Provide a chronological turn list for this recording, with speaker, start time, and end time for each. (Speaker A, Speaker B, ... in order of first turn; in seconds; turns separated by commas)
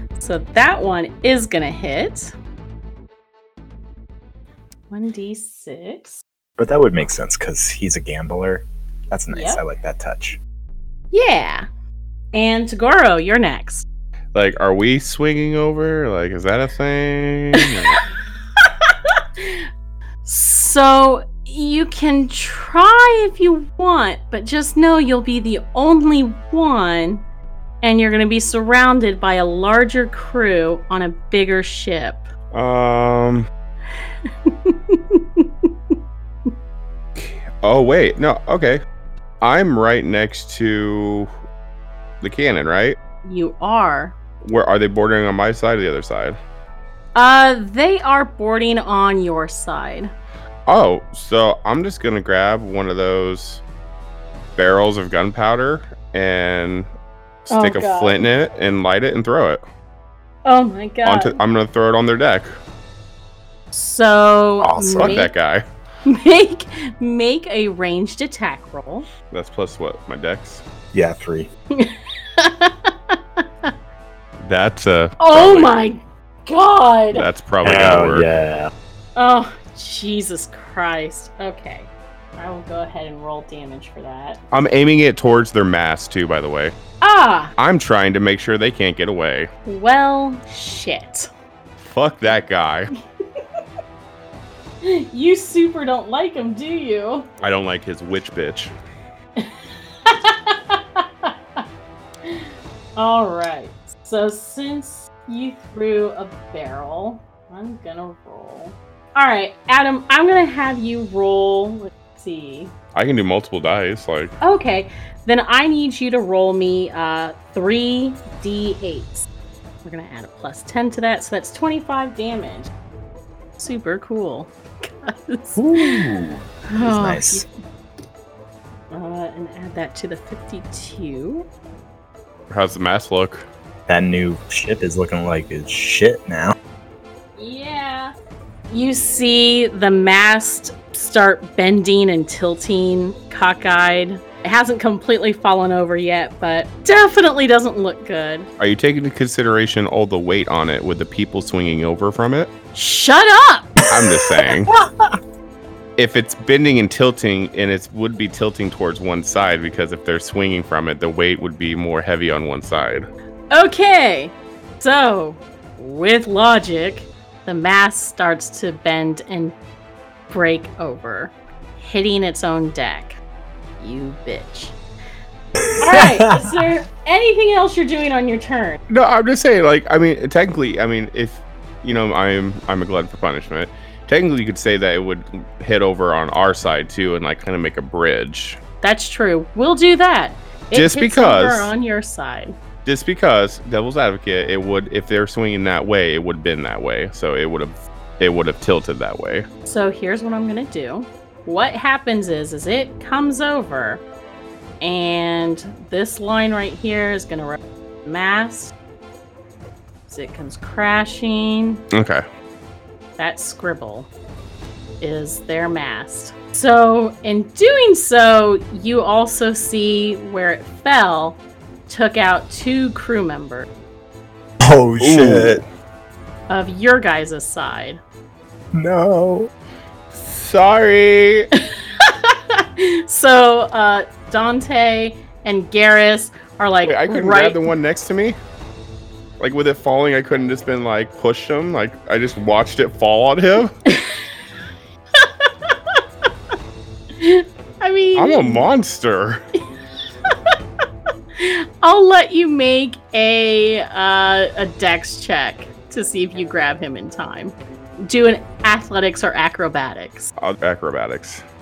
Speaker A: 0.2-2.3, Speaker A: 4.9-6.2, Speaker B: 6.6-10.4, Speaker A: 9.3-9.6, Speaker A: 11.1-11.7, Speaker A: 12.3-13.8, Speaker C: 14.3-18.0, Speaker A: 17.6-17.9, Speaker A: 18.6-19.6, Speaker A: 20.2-27.2, Speaker A: 27.8-32.2, Speaker C: 32.5-33.5, Speaker A: 34.2-35.7, Speaker C: 37.1-38.8, Speaker C: 39.4-41.3, Speaker C: 42.2-43.0, Speaker A: 43.2-44.1, Speaker C: 44.4-46.4, Speaker A: 47.1-50.1, Speaker C: 50.7-53.6, Speaker C: 54.5-56.9, Speaker C: 57.5-59.6, Speaker A: 57.5-58.2, Speaker A: 60.4-61.4, Speaker C: 61.0-62.6, Speaker A: 63.7-65.3, Speaker B: 64.6-65.2, Speaker C: 65.0-65.7, Speaker A: 66.0-69.1, Speaker C: 69.3-70.6, Speaker B: 70.9-71.5, Speaker A: 71.7-73.7, Speaker C: 74.4-75.7, Speaker A: 75.2-77.2, Speaker C: 77.1-78.2, Speaker B: 77.6-78.7, Speaker A: 79.2-84.4, Speaker C: 84.5-86.7, Speaker A: 87.0-87.5, Speaker C: 87.6-89.5, Speaker A: 89.7-91.3, Speaker C: 91.8-92.9, Speaker A: 94.8-97.3, Speaker C: 97.4-98.7, Speaker A: 100.0-101.6, Speaker A: 102.2-112.7, Speaker C: 112.9-114.3, Speaker A: 114.4-119.3, Speaker A: 119.8-122.7, Speaker A: 123.6-126.0, Speaker C: 125.6-126.4, Speaker A: 126.7-127.5, Speaker B: 126.8-127.5, Speaker A: 128.9-131.5, Speaker C: 132.5-133.5, Speaker B: 133.9-136.5, Speaker A: 137.4-138.2, Speaker A: 138.7-148.5, Speaker C: 148.6-152.5, Speaker A: 152.7-153.7, Speaker C: 153.9-154.7, Speaker B: 153.9-155.1, Speaker C: 156.0-163.1, Speaker A: 163.5-169.6, Speaker A: 170.3-173.2, Speaker A: 173.8-174.8, Speaker B: 175.6-176.6, Speaker A: 175.8-178.8, Speaker C: 178.9-188.6, Speaker A: 188.8-192.5, Speaker C: 190.7-191.7, Speaker C: 192.8-199.4, Speaker A: 199.7-204.0, Speaker A: 204.8-208.7, Speaker A: 210.1-211.8, Speaker C: 211.9-212.2, Speaker A: 213.2-214.1, Speaker A: 215.0-223.7, Speaker B: 224.6-225.6, Speaker C: 225.0-225.6, Speaker A: 226.5-228.0, Speaker B: 228.7-229.5, Speaker C: 230.1-231.5, Speaker A: 231.6-237.6, Speaker C: 236.8-238.4, Speaker C: 239.4-243.7, Speaker A: 243.9-244.2, Speaker A: 245.2-246.0, Speaker A: 247.2-248.7, Speaker C: 248.2-249.4, Speaker A: 251.4-260.3, Speaker C: 260.4-261.4